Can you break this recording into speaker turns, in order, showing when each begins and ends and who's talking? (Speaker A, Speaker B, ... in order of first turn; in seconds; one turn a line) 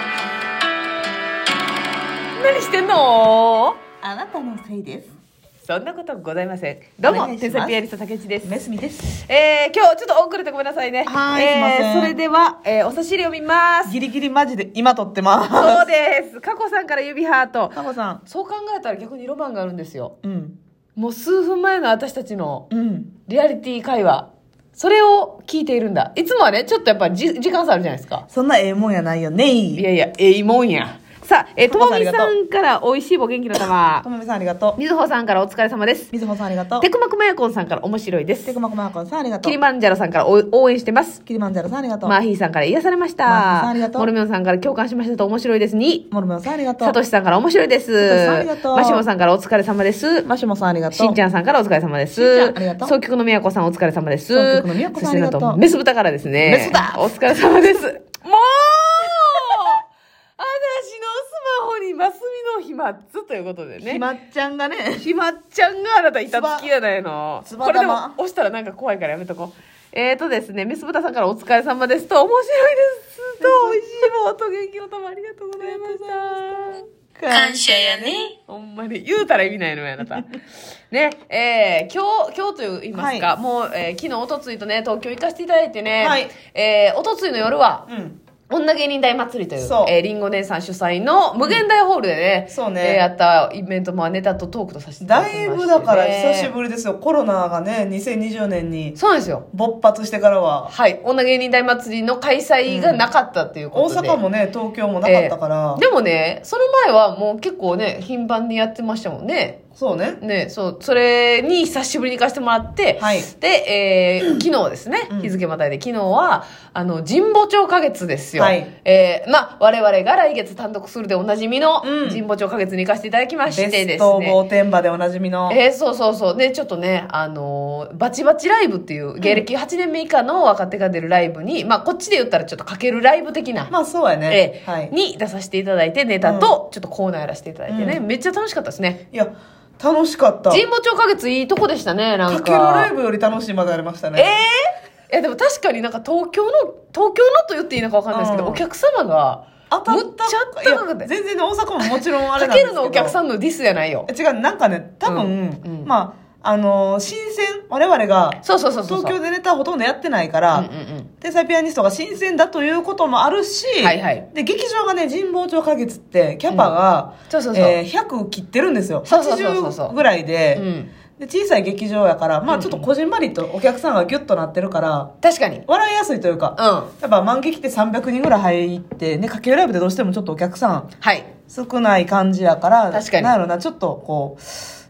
Speaker A: 2.4-3.8
Speaker B: 4.0-5.1
Speaker A: 5.7-8.5
Speaker B: 7.0-7.8
Speaker B: 8.4-9.1
Speaker A: 9.1-14.0
Speaker B: 11.1-12.2
Speaker B: 13.9-15.9
Speaker A: 15.5-20.1
Speaker B: 17.7-18.2
Speaker B: 20.2-20.6
Speaker A: 21.0-22.7
Speaker B: 22.7-23.1
Speaker A: 23.3-28.2
Speaker B: 28.3-29.9
Speaker A: 29.8-34.0
Speaker B: 31.7-32.3
Speaker B: 34.0-34.8
Speaker A: 34.8-36.1
Speaker B: 36.1-36.9
Speaker A: 36.8-38.6
Speaker B: 38.5-39.6
Speaker A: 39.4-41.2
Speaker B: 41.3-42.2
Speaker A: 42.0-46.1
Speaker B: 43.3-44.1
Speaker B: 46.1-47.0
Speaker A: 46.8-50.3
Speaker B: 48.0-49.1
Speaker B: 50.2-51.2
Speaker A: 50.9-59.8
Speaker B: 52.1-53.0
Speaker B: 54.3-55.6
Speaker B: 56.4-57.1
Speaker A: 60.4-64.0
Speaker B: 63.8-65.1
Speaker A: 65.0-76.8
Speaker B: 66.3-66.7
Speaker B: 67.4-68.2
Speaker B: 73.4-74.1
Speaker B: 75.6-76.4
Speaker B: 77.2-78.3
Speaker A: 77.5-80.4
Speaker A: 80.9-87.9
Speaker B: 82.9-83.3
Speaker B: 86.0-86.3
Speaker B: 87.9-88.2
Speaker A: 88.5-96.5
Speaker B: 89.6-89.9
Speaker B: 92.5-93.0
Speaker B: 95.0-99.0
Speaker A: 99.0-99.5
Speaker B: 99.5-100.7
Speaker A: 100.7-104.2
Speaker B: 102.7-103.1
Speaker B: 103.7-105.8
Speaker A: 105.0-109.6
Speaker B: 109.8-110.2
Speaker A: 110.2-124.4
Speaker B: 113.0-113.3
Speaker B: 118.4-118.7
Speaker B: 121.8-122.2
Speaker B: 123.5-125.6
Speaker A: 125.5-133.7
Speaker B: 133.7-134.9
Speaker A: 134.3-139.0
Speaker B: 136.2-136.5
Speaker B: 137.7-138.0
Speaker B: 139.1-140.7
Speaker A: 140.5-142.9
Speaker B: 142.3-144.4
Speaker A: 144.2-151.1
Speaker B: 148.1-148.6
Speaker B: 149.7-153.2
Speaker A: 151.8-154.1
Speaker B: 154.1-160.7
Speaker A: 155.1-155.9
Speaker A: 158.4-159.2
Speaker A: 160.5-161.1
Speaker B: 161.2-170.7
Speaker A: 163.8-164.3
Speaker A: 167.3-167.8
Speaker A: 169.1-169.9
Speaker A: 170.6-170.9
Speaker B: 171.2-175.1
Speaker A: 172.5-172.9
Speaker A: 175.2-175.6
Speaker B: 175.7-180.9
Speaker A: 176.6-176.9
Speaker A: 181.0-181.3
Speaker B: 181.5-184.7
Speaker A: 182.9-183.3